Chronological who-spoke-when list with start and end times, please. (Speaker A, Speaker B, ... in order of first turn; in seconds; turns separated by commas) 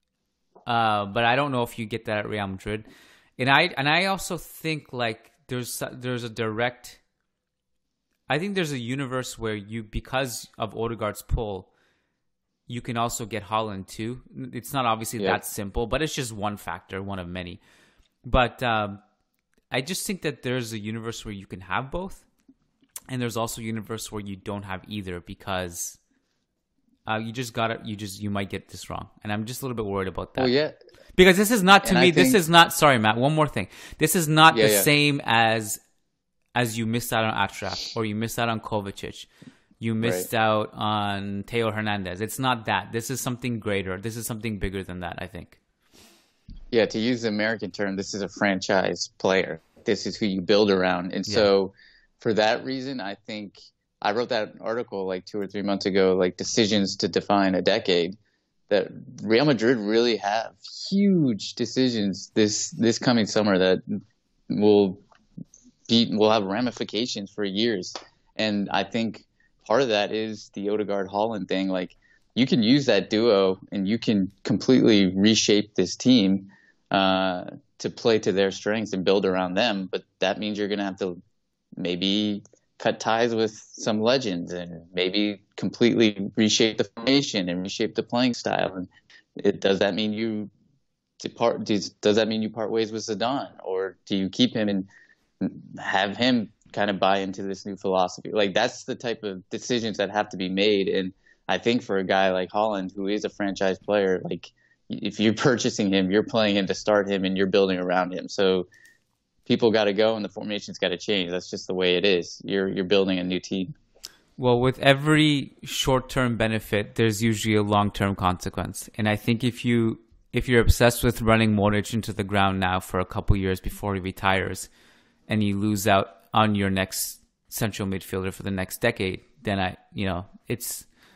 Speaker A: 0.7-2.9, Speaker A: 3.4-7.0, Speaker A: 8.3-11.7, Speaker A: 12.7-17.6, Speaker A: 18.2-19.0, Speaker A: 19.7-22.2, Speaker A: 23.1-26.0, Speaker A: 27.1-30.5, Speaker B: 30.4-30.8, Speaker A: 31.1-35.8, Speaker B: 31.8-32.4, Speaker B: 34.5-34.9, Speaker A: 36.5-39.3, Speaker A: 39.8-45.6, Speaker B: 40.0-40.3, Speaker B: 46.7-58.1, Speaker B: 58.7-65.0, Speaker B: 65.9-81.2, Speaker B: 81.8-88.9, Speaker B: 89.4-90.5, Speaker B: 91.2-94.9, Speaker B: 95.4-108.7, Speaker B: 109.5-113.7, Speaker A: 114.4-124.7, Speaker A: 125.3-130.8